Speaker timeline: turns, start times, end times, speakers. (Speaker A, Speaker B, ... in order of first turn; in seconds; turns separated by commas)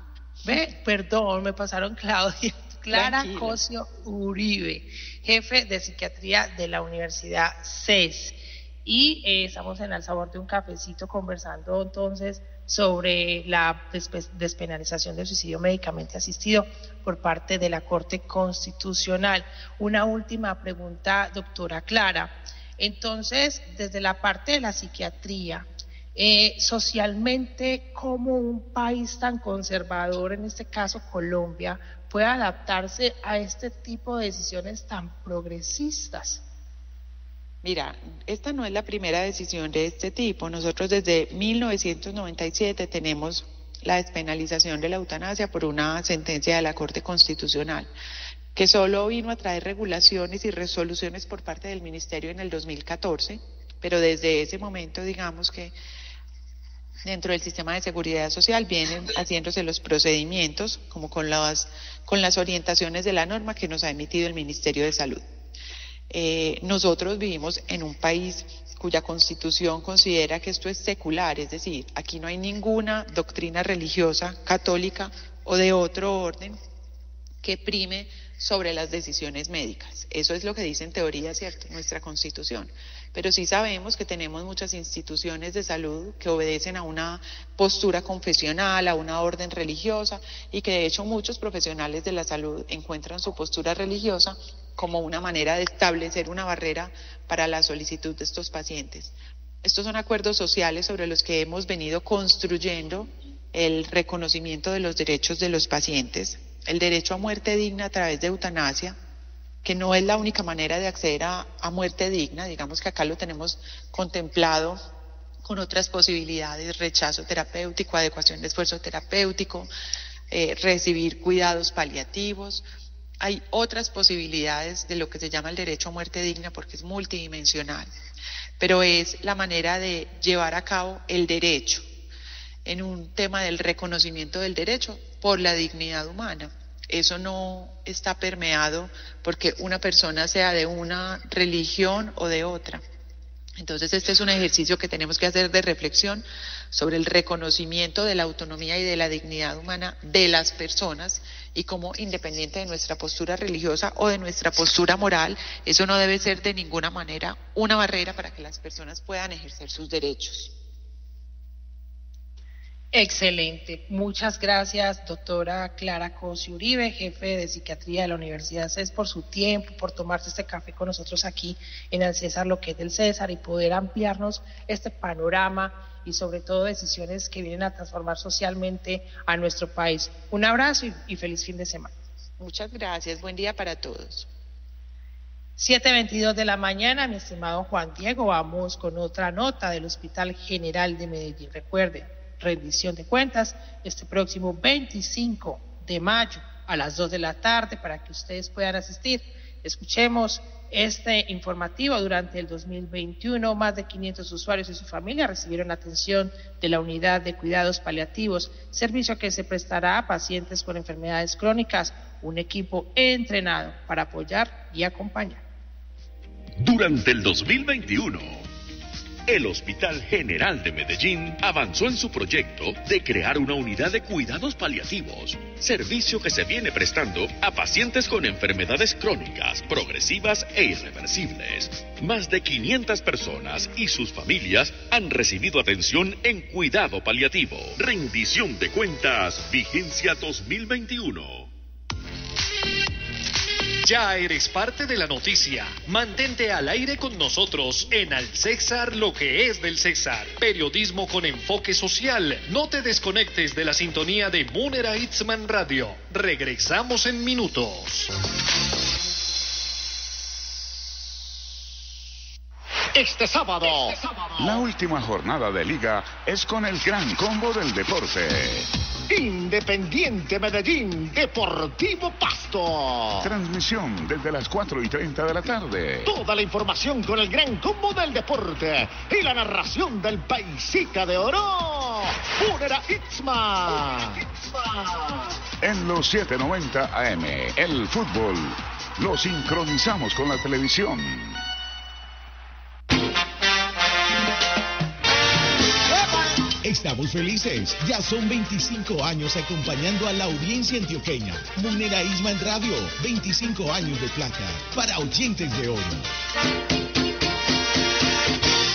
Speaker A: 0.4-36.4, Speaker B: 2.9-3.6, Speaker B: 37.6-47.9, Speaker B: 48.5-55.7, Speaker B: 57.0-65.2, Speaker B: 66.1-76.6, Speaker B: 77.4-109.0, Speaker B: 109.6-114.8, Speaker B: 115.4-119.7, Speaker B: 120.3-122.6, Speaker B: 123.2-127.9, Speaker B: 128.6-131.9, Speaker B: 132.6-142.8, Speaker B: 143.6-160.5, Speaker A: 162.9-181.9, Speaker B: 182.4-184.3, Speaker A: 185.6-215.4, Speaker C: 216.6-218.4, Speaker C: 219.3-241.5, Speaker D: 243.8-258.1, Speaker E: 262.9-264.6, Speaker F: 264.4-268.7, Speaker E: 269.1-273.3, Speaker F: 273.2-276.1, Speaker E: 276.1-285.3, Speaker F: 285.6-291.4, Speaker G: 296.6-306.1